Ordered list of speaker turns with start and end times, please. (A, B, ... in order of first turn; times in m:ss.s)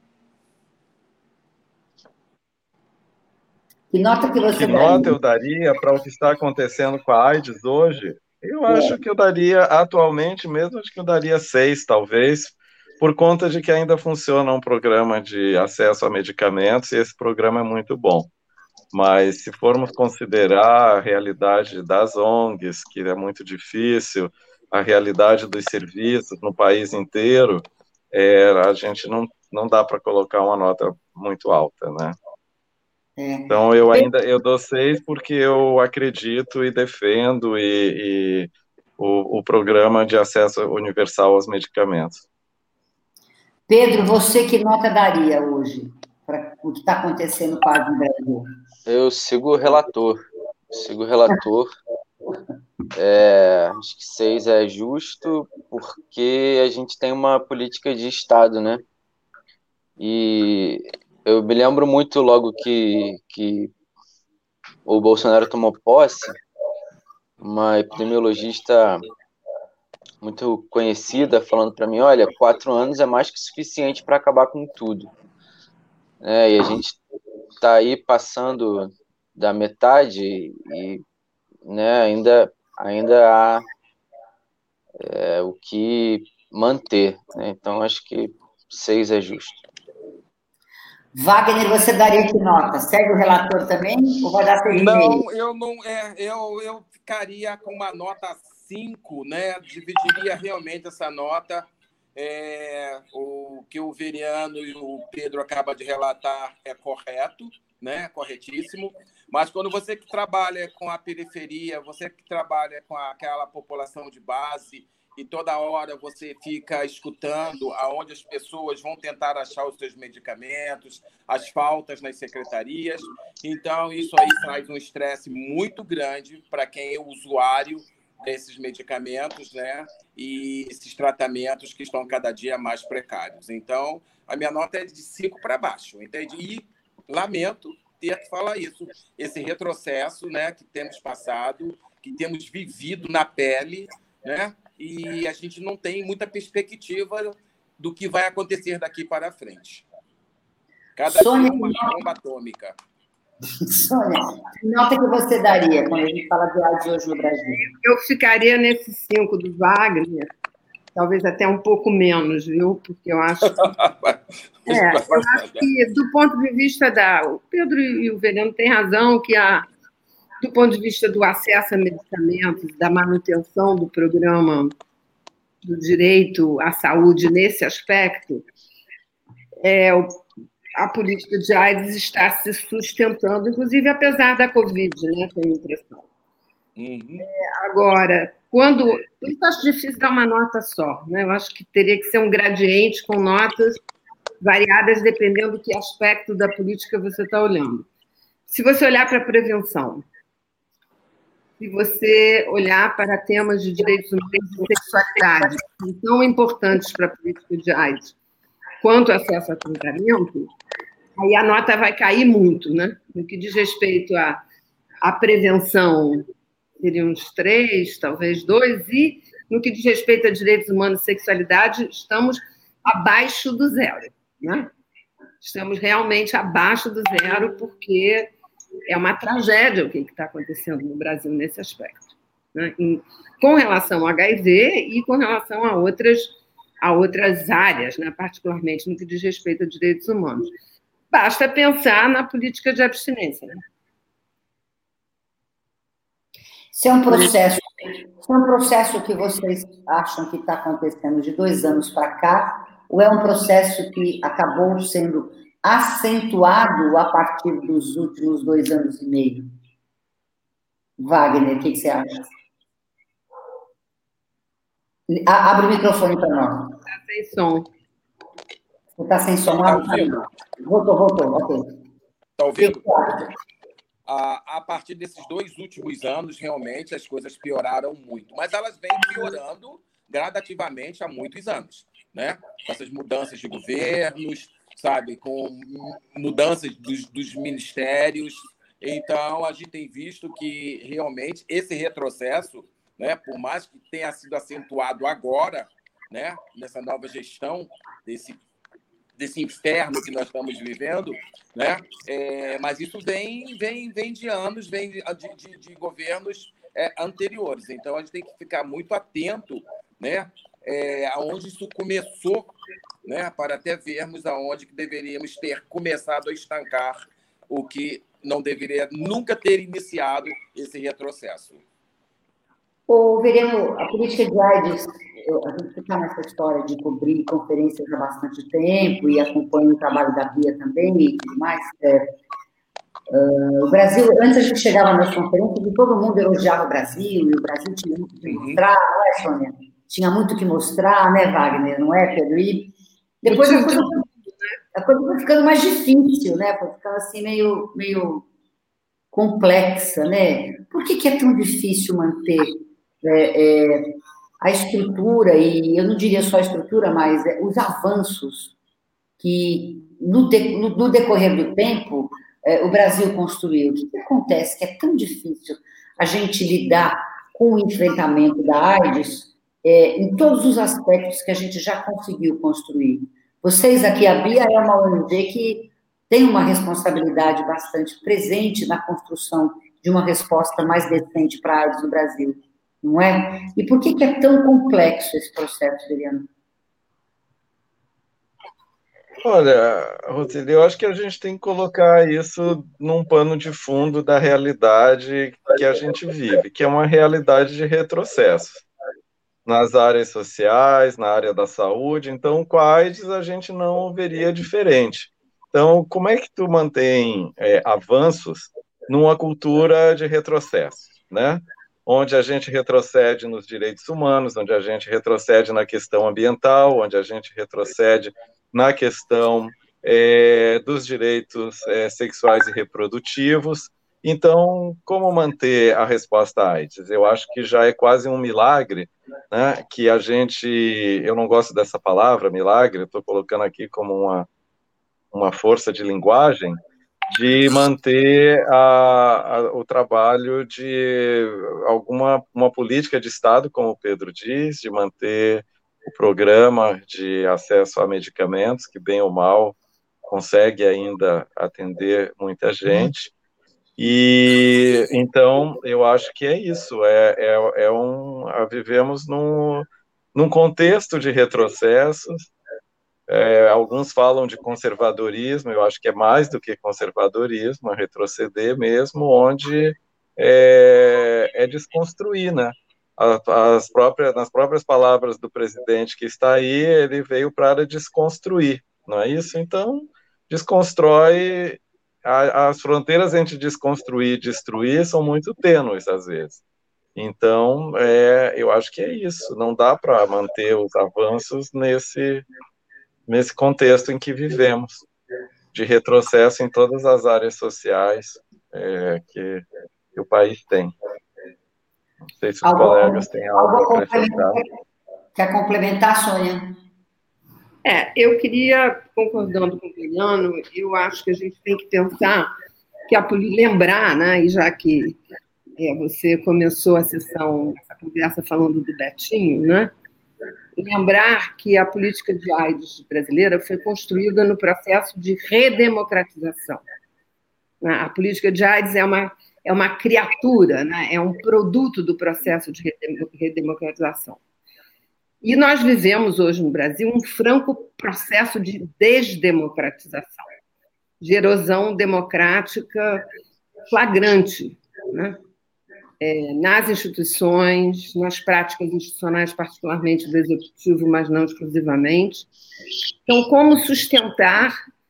0:03.9-0:05.1 A
0:04.6-0:18.3 B
0:08.7-0:09.0 A
0:18.9-0:32.2 B
0:33.2-0:34.1 A
0:33.5-0:42.2 B
0:43.7-0:48.5 A
0:48.8-0:50.2 C
0:50.7-0:51.7 C
0:53.0-0:58.8 C
1:00.0-1:03.7 C
1:04.8-1:06.4 C
1:07.4-1:09.0 C
1:10.2-1:15.1 C
1:16.2-1:17.0 C
1:17.6-1:21.0 C
1:21.6-1:23.6 C
1:25.0-1:29.6 C
1:31.1-1:35.2 A
1:34.7-2:29.8 D
2:31.0-2:32.8 D
2:31.1-2:32.0 A
2:33.6-2:37.7 A
2:37.6-2:40.3 E
2:40.9-2:43.6 E
2:43.6-2:45.6 D
2:44.7-2:49.7 E
2:50.4-2:54.7 E
2:55.6-2:58.5 E
2:59.6-3:00.2 E
3:00.8-3:06.0 E
3:06.8-3:07.2 D
3:07.2-3:13.8 E
3:14.4-3:17.9 E
3:18.5-3:20.0 E
3:21.6-3:28.2 E
3:28.8-3:30.5 E
3:31.2-3:34.4 E
3:35.0-3:36.2 E
3:36.8-3:44.7 E
3:45.4-3:48.3 E
3:48.9-3:52.0 E
3:52.5-4:00.5 E
4:01.1-4:03.6 E
4:06.7-4:19.5 A
4:21.0-4:22.3 A
4:25.1-4:26.8 A
4:26.9-4:27.7 E
4:29.0-4:31.6 A
4:29.6-4:30.2 D
4:32.4-4:33.3 D
4:32.6-4:33.2 A
4:34.1-4:58.4 D
4:59.2-5:12.5 D
5:13.0-5:21.6 D
5:22.9-5:32.1 A
5:33.1-5:44.0 A
5:38.3-5:38.6 D
5:43.2-5:44.5 E
5:44.7-5:48.2 A
5:49.1-5:58.5 A
5:59.2-6:26.3 A
6:29.2-6:38.6 B
6:39.4-7:14.3 B
7:15.1-7:16.6 B
7:17.1-7:29.6 B
7:30.1-7:33.1 B
7:33.8-7:42.3 B
7:43.1-8:06.4 B
8:07.0-8:12.2 B
8:13.1-8:14.8 B
8:15.5-8:19.4 B
8:19.9-8:20.7 B
8:22.2-8:24.4 B
8:22.4-8:24.5 A
8:25.1-8:26.5 A
8:27.6-8:32.3 E
8:32.9-8:35.0 E
8:35.6-8:39.7 E
8:40.6-8:46.6 E
8:47.6-8:54.2 E
8:55.2-9:00.2 E
9:01.0-9:03.0 E
9:03.7-9:05.2 E
9:06.0-9:12.3 E
9:13.1-9:14.5 E